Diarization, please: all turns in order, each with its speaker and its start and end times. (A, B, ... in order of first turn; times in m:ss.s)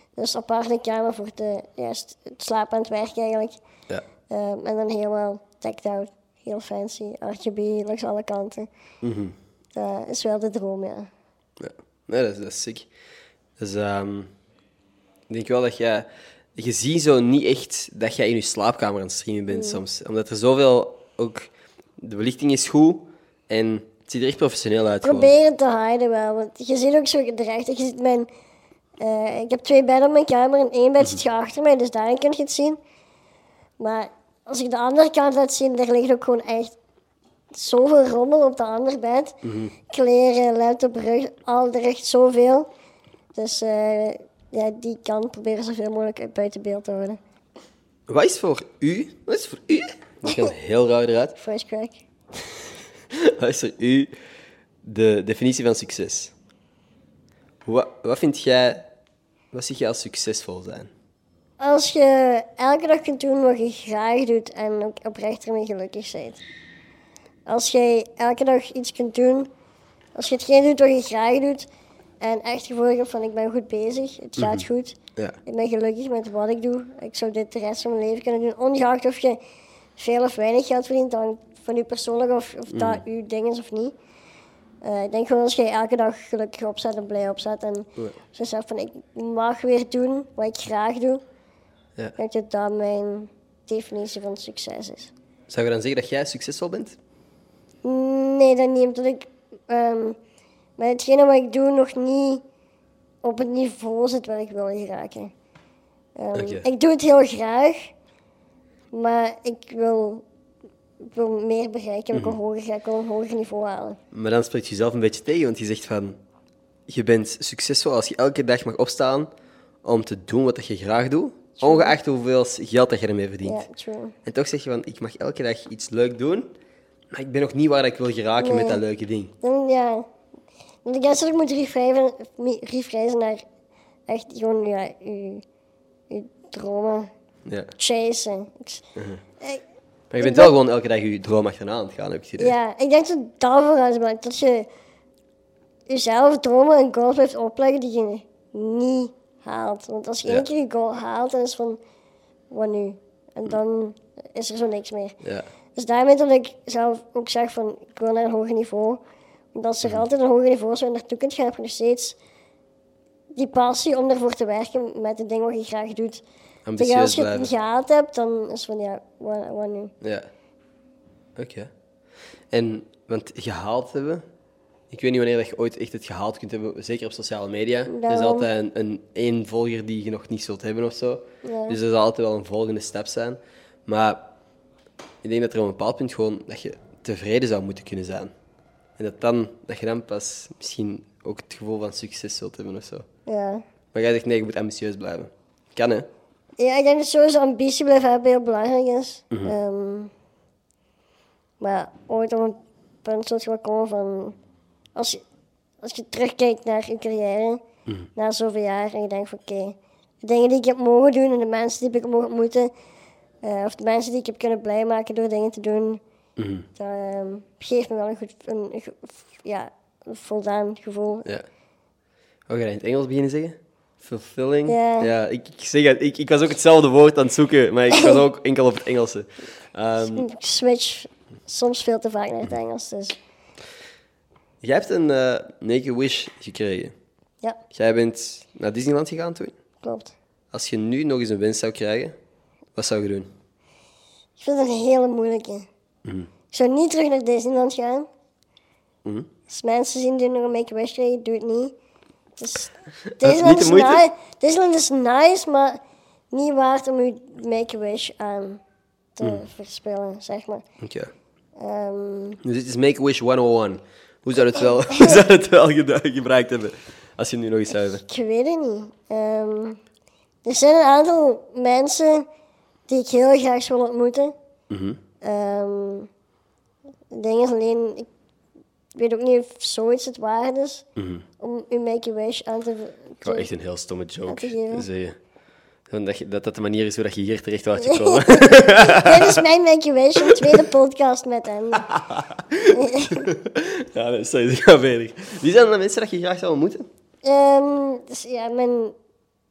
0:00.2-0:03.6 A
0:04.3-0:08.7 A
0:09.0-0:09.4 B
0:09.7-0:11.1 A
0:11.6-0:12.9 B
0:13.6-0:14.3 B
0:15.3-0:25.3 B
0:19.5-0:19.8 A
0:25.0-0:28.3 A
0:29.0-0:32.8 A
0:33.8-0:36.7 A
0:37.5-0:39.4 A
0:39.4-0:39.7 B
0:39.9-0:42.7 A
0:43.4-0:47.2 A
0:48.1-0:51.4 B
0:51.4-0:52.0 A
0:53.1-0:54.1 B
0:54.8-0:56.3 B
0:57.6-0:58.9 B
0:59.5-1:00.9 B
1:01.6-1:06.4 A
1:07.4-1:09.5 A
1:10.1-1:11.7 A
1:12.2-1:19.4 A
1:14.4-1:15.4 B
1:20.0-1:23.9 A
1:22.7-1:23.0 B
1:24.8-1:31.2 A
1:32.2-1:35.1 A
1:35.5-1:37.0 B
1:37.8-1:40.2 A
1:40.8-1:42.4 A
1:43.2-1:45.3 A
1:46.2-1:47.9 A
1:46.4-1:46.7 B
1:48.9-1:50.2 A
1:51.0-1:54.0 A
1:54.1-1:56.2 B
1:56.9-1:59.3 B
1:59.8-2:03.6 B
2:01.6-2:01.9 A
2:03.4-2:04.1 A
2:04.2-2:06.5 B
2:07.1-2:09.3 B
2:08.4-2:08.8 A
2:09.4-2:10.1 A
2:10.8-2:13.4 A
2:14.1-2:15.4 A
2:16.1-2:17.1 A
2:17.4-2:17.7 B
2:17.8-2:18.8 A
2:19.0-2:19.2 B
2:20.1-2:22.6 B
2:20.2-2:20.6 A
2:22.4-2:24.7 A
2:25.9-2:31.8 A
2:32.5-2:35.2 A
2:35.2-2:35.5 B
2:35.7-2:39.0 A
2:39.5-2:42.2 A
2:43.4-2:46.2 A
2:46.6-2:47.5 B
2:46.8-2:49.9 A
2:50.0-2:50.3 B
2:51.4-2:51.7 B
2:52.5-2:54.3 B
2:54.9-3:04.2 B
2:57.9-2:58.5 A
3:01.4-3:01.8 A
3:05.2-3:08.3 B
3:09.0-3:13.1 B
3:13.3-3:13.6 A
3:13.9-3:16.1 B
3:16.6-3:20.1 A
3:21.6-3:24.4 A
3:24.9-3:25.2 A
3:25.8-3:27.6 A
3:28.2-3:32.7 A
3:33.4-3:36.0 A
3:36.4-3:36.7 B
3:36.8-3:41.3 A
3:42.5-3:50.3 B
3:44.7-3:45.1 A
3:47.9-3:48.2 A
3:50.1-3:53.2 A
3:54.6-3:56.9 B
3:57.7-3:59.6 B
3:59.8-4:00.1 A
4:00.5-4:02.2 B
4:02.8-4:03.3 B
4:04.4-4:05.7 A
4:06.0-4:06.3 B
4:06.5-4:08.1 A
4:09.5-4:11.8 A
4:12.4-4:15.8 A
4:13.1-4:14.0 B
4:16.3-4:18.6 A
4:19.2-4:20.6 A
4:20.8-4:21.1 B
4:21.6-4:22.4 A
4:22.4-4:28.0 B
4:24.9-4:25.2 A
4:27.9-4:29.8 A
4:30.4-4:32.3 A
4:32.9-4:34.4 A
4:34.7-4:35.0 B
4:35.2-4:36.1 A
4:37.1-4:38.1 A
4:38.9-4:40.8 A
4:41.0-4:41.2 B
4:41.4-4:43.5 A
4:43.2-4:45.2 B
4:44.3-4:44.9 A
4:45.9-4:49.4 B
4:47.8-4:51.9 A
4:50.2-4:50.6 B
4:51.8-4:56.9 B
4:52.7-4:53.3 A
4:57.2-4:59.0 A